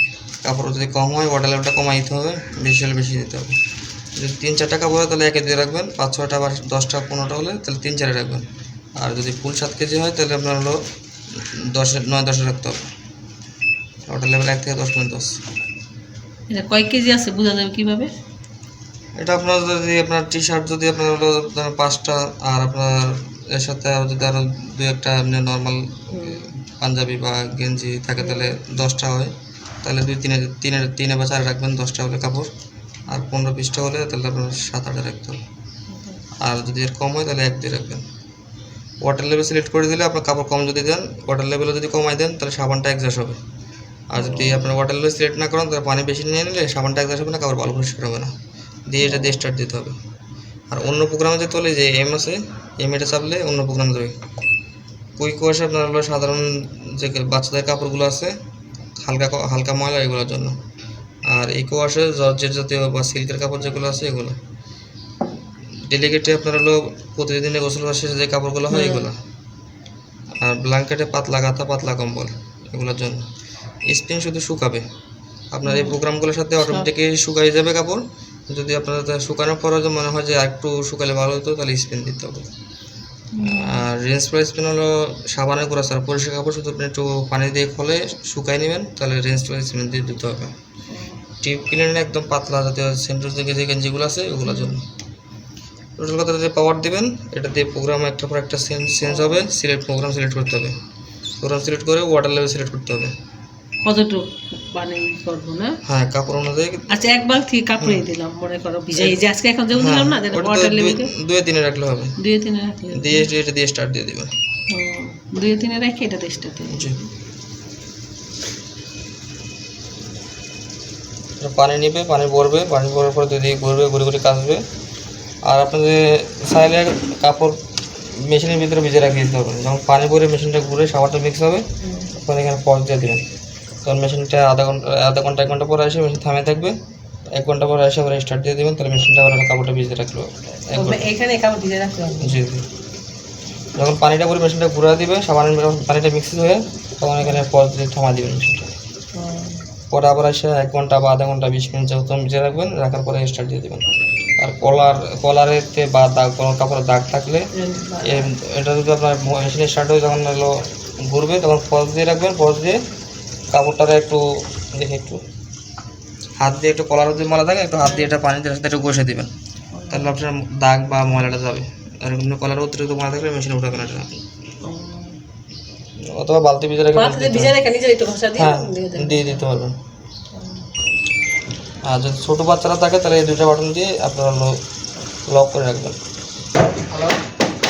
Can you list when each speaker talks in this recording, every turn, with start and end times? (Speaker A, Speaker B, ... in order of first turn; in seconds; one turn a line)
Speaker A: 0.4-3.5
Speaker A: 4.2-8.4
Speaker A: 9.0-10.8
Speaker A: 11.4-12.8
Speaker A: 14.1-15.4
Speaker B: 16.5-18.1
Speaker A: 19.2-29.3
Speaker B: 26.1-26.4
Speaker B: 28.2-28.5
Speaker A: 29.8-32.5
Speaker A: 33.1-35.4
Speaker B: 35.9-36.2
Speaker A: 36.4-38.0
Speaker A: 39.0-43.4
Speaker A: 44.1-48.3
Speaker B: 44.1-44.7
Speaker A: 48.9-50.0
Speaker B: 49.0-49.4
Speaker A: 50.7-54.1
Speaker A: 55.2-58.3
Speaker A: 59.0-60.5
Speaker A: 61.3-64.3
Speaker A: 65.9-69.2
Speaker B: 68.7-69.1
Speaker A: 70.4-73.2
Speaker A: 73.9-74.8
Speaker A: 75.5-82.5
Speaker B: 75.6-76.0
Speaker B: 76.6-76.9
Speaker B: 83.3-83.8
Speaker A: 83.4-90.5
Speaker B: 90.9-91.2
Speaker A: 91.4-94.8
Speaker B: 94.5-94.7
Speaker A: 96.0-100.8
Speaker B: 99.0-99.4
Speaker A: 101.4-103.1
Speaker B: 103.8-105.8
Speaker A: 105.8-106.9
Speaker B: 106.9-111.1
Speaker A: 107.8-108.0
Speaker A: 108.9-109.2
Speaker A: 109.7-112.1
Speaker B: 112.2-113.3
Speaker A: 112.9-114.3
Speaker B: 114.7-117.0
Speaker A: 116.7-117.0
Speaker A: 121.4-124.6
Speaker A: 125.4-133.2
Speaker B: 131.8-132.1
Speaker A: 133.8-136.8
Speaker A: 137.3-141.1
Speaker B: 140.7-142.4
Speaker A: 142.2-142.6
Speaker A: 143.8-148.7
Speaker B: 149.1-149.6
Speaker A: 149.9-153.8
Speaker A: 154.4-157.5
Speaker B: 157.5-158.3
Speaker A: 158.0-160.6
Speaker A: 161.1-162.8
Speaker A: 163.5-165.2
Speaker A: 166.4-169.3
Speaker B: 167.8-168.1
Speaker B: 169.7-170.1
Speaker A: 169.9-174.2
Speaker B: 174.6-175.2
Speaker A: 176.0-177.6
Speaker B: 176.9-179.4
Speaker A: 178.3-179.8
Speaker B: 180.3-180.7
Speaker A: 181.8-184.6
Speaker A: 185.3-185.9
Speaker A: 186.9-187.2